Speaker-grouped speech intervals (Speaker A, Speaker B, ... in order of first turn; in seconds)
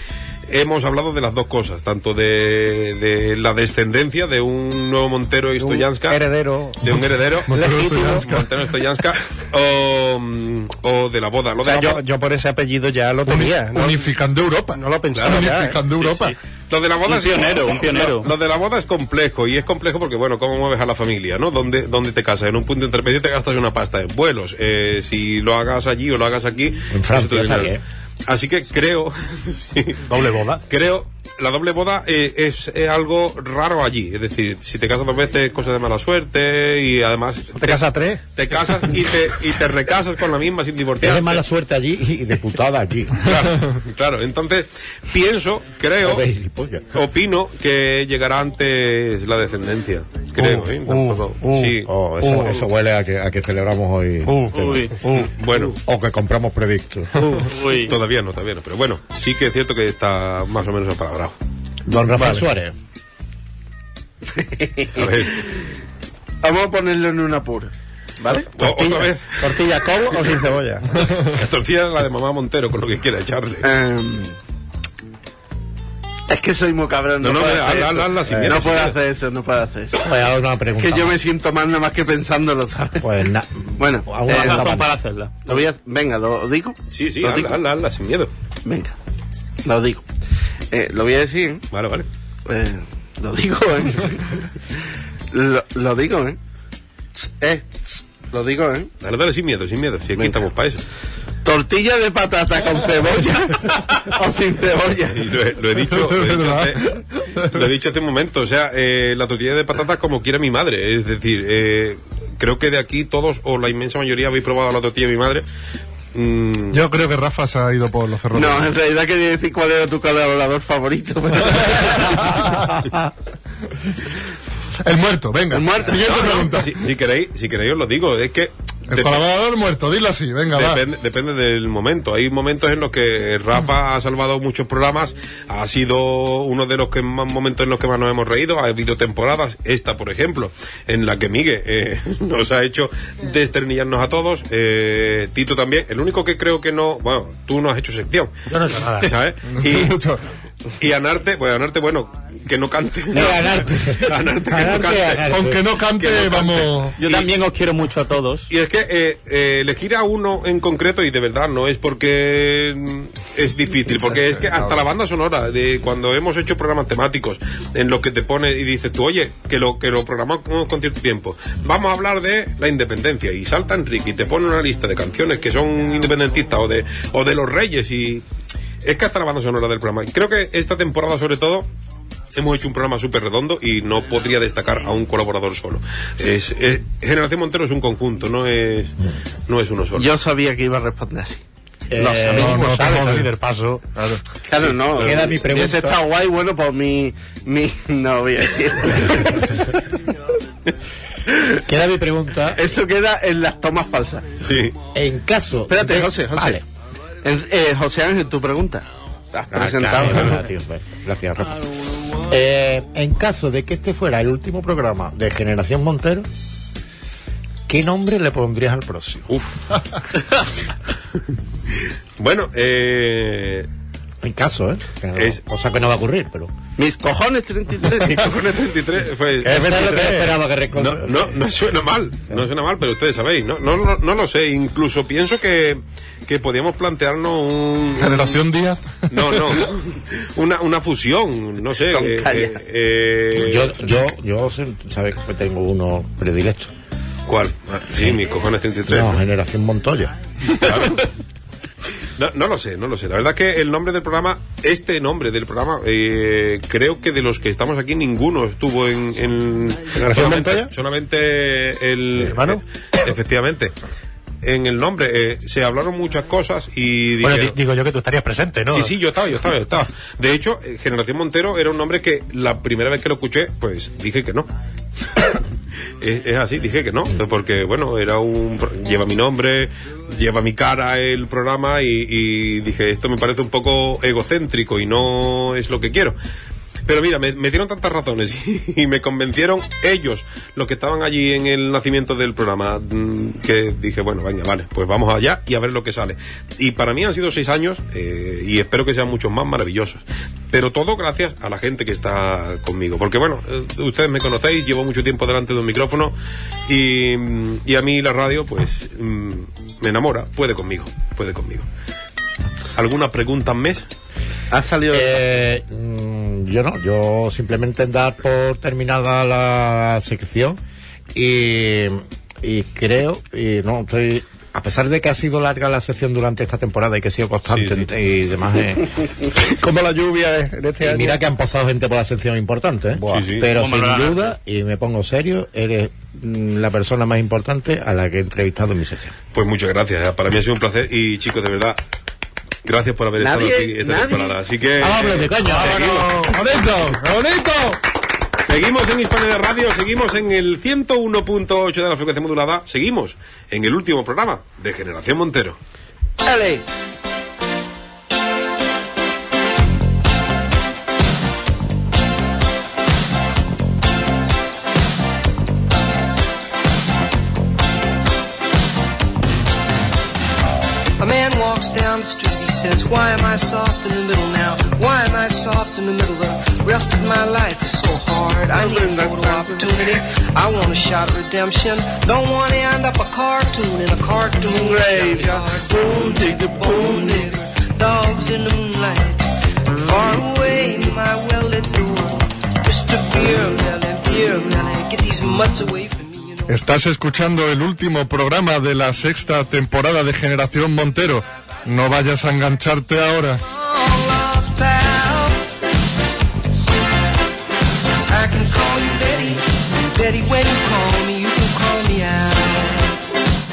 Speaker A: 0.5-6.2, 6.8-12.0, 15.1-15.5, 16.7-27.7, 28.3-30.0, 30.7-41.4, 43.2-46.2, 46.9-51.9, 55.1-55.8, 57.6-61.4, 65.0-65.3, 68.6-70.2, 71.0-73.7, 77.2-79.0, 86.9-88.3, 91.7-92.1, 99.0-100.8, 105.1-115.5, 116.1-116.8, 126.0-129.2, 130.5-148.3, 149.0-149.9, 150.8-157.3, 158.5-178.2, 178.8-181.7, 182.3-189.0, 189.5-190.1, 194.6-195.1, 204.4-204.8, 219.3-219.6, 222.2-223.7, 228.1-230.1, 230.8-238.4, 239.1-243.8, 247.3-249.2, 250.6-251.1, 252.2-263.7, 264.4-267.6, 268.7-274.5, 276.0-286.2, 286.9-306.1, 306.7-311.7, 312.8-313.9, 327.5-327.9, 333.0-333.5, 339.3-341.8, 342.6-346.1, 348.5-355.6
Speaker B: 5.6-7.0, 7.5-8.3, 11.7-14.1, 14.7-15.8, 37.6-38.2, 57.2-57.5, 68.6-71.0, 229.5-230.2, 260.0-260.7, 329.4-331.2
Speaker C: 7.5-8.5, 13.3-16.4, 50.4-52.5, 54.3-54.5, 105.9-107.6, 116.7-118.7, 124.8-126.8, 128.9-130.8, 149.5-150.2, 155.3-157.0, 192.3-193.3, 193.9-194.2, 238.0-239.7, 344.8-347.8, 396.5-403.4
Speaker D: 16.0-16.4, 17.1-18.3, 54.5-55.0, 57.5-58.0, 84.3-85.5, 157.0-158.5, 333.5-334.4
Speaker E: 26.9-27.8, 41.0-43.3, 46.0-46.9, 51.9-54.9, 55.7-57.3, 61.9-62.7, 80.0-81.2, 83.0-84.9, 153.1-155.6, 191.9-193.1, 194.9-196.0, 201.7-202.8, 204.9-206.7, 209.5-211.6, 212.1-216.3, 217.7-219.3, 224.2-226.5, 229.4-231.4, 243.3-246.7, 248.9-250.1, 314.9-320.6, 321.1-328.9, 330.8-339.1, 344.8-345.9
Speaker F: 30.1-30.6, 148.5-149.1, 192.0-193.8, 262.2-262.6, 267.2-268.9
Speaker G: 64.4-65.1, 66.4-68.5, 73.6-74.3, 76.3-80.0, 80.8-83.1, 83.8-84.6, 85.5-87.6, 88.7-88.9, 89.7-90.0, 90.7-91.6, 92.5-94.4, 95.3-96.4, 97.2-98.9, 101.4-105.2, 118.3-122.3, 125.5-126.2, 190.0-191.4, 192.0-192.4, 194.5-199.5, 202.6-204.3, 205.7-206.6, 207.2-210.4, 226.8-228.5, 229.8-230.2, 241.7-242.6, 314.5-315.2, 343.2-344.4, 356.2-356.7, 378.5-379.7, 384.5-387.3
Speaker H: 371.0-396.5, 403.5-405.4, 408.1-412.8